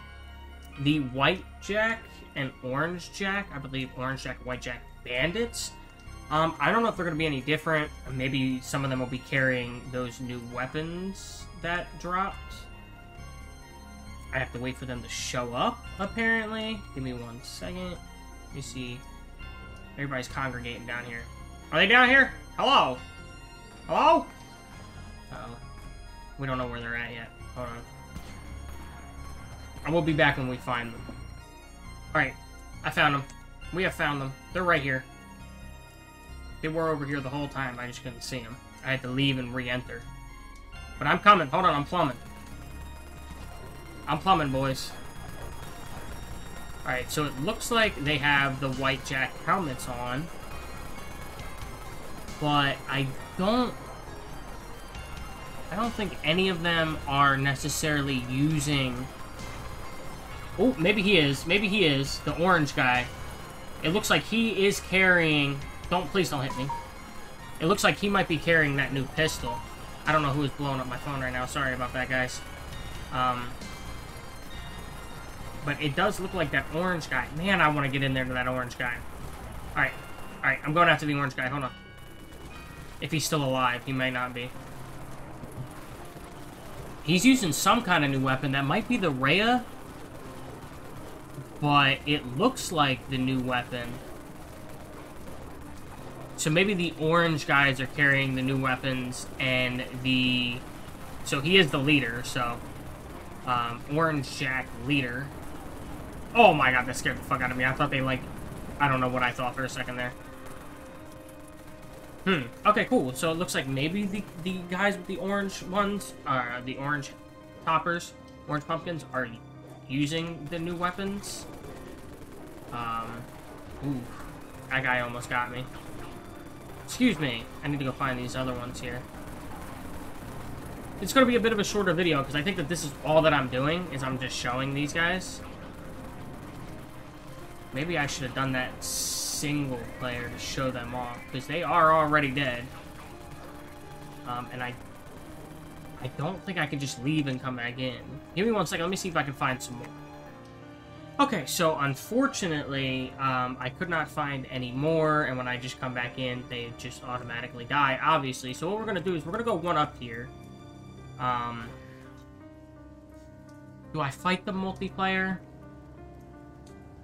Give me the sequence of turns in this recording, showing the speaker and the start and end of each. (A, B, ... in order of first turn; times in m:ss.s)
0:00.8-0:05.7 A
0:06.3-0:12.7 A
0:14.3-0:18.0 A
0:18.5-0:19.0 A
0:20.0-0:23.0 A
0:23.9-0:24.3 A
0:25.3-0:25.6 A
0:26.4-0:27.8 A
0:29.8-0:31.0 A
0:32.1-0:35.1 A
0:36.6-0:40.1 A
0:41.0-0:42.2 A
0:44.1-0:45.0 A
0:46.8-0:50.3 A
0:52.4-0:53.8 A
0:55.7-0:59.1 A
1:00.6-1:03.1 A
1:03.8-1:06.7 A
1:07.6-1:12.4 A
1:13.1-1:13.6 A
1:15.6-1:19.0 A
1:19.7-1:21.7 A
1:23.0-1:24.5 A
1:27.0-1:29.7 A
1:31.6-1:34.0 A
1:36.4-1:40.7 A
1:41.2-1:42.6 A
1:43.4-1:45.3 A
1:46.3-1:50.2 A
1:52.2-2:01.5 A
2:02.7-2:03.3 A
2:03.8-2:05.7 A
2:06.9-2:09.1 A
2:11.0-2:15.4 A
2:17.7-2:22.7 A
2:24.2-2:24.8 A
2:26.0-2:30.0 A
2:31.2-2:40.3 A
2:41.2-2:41.7 A
2:43.9-2:45.4 A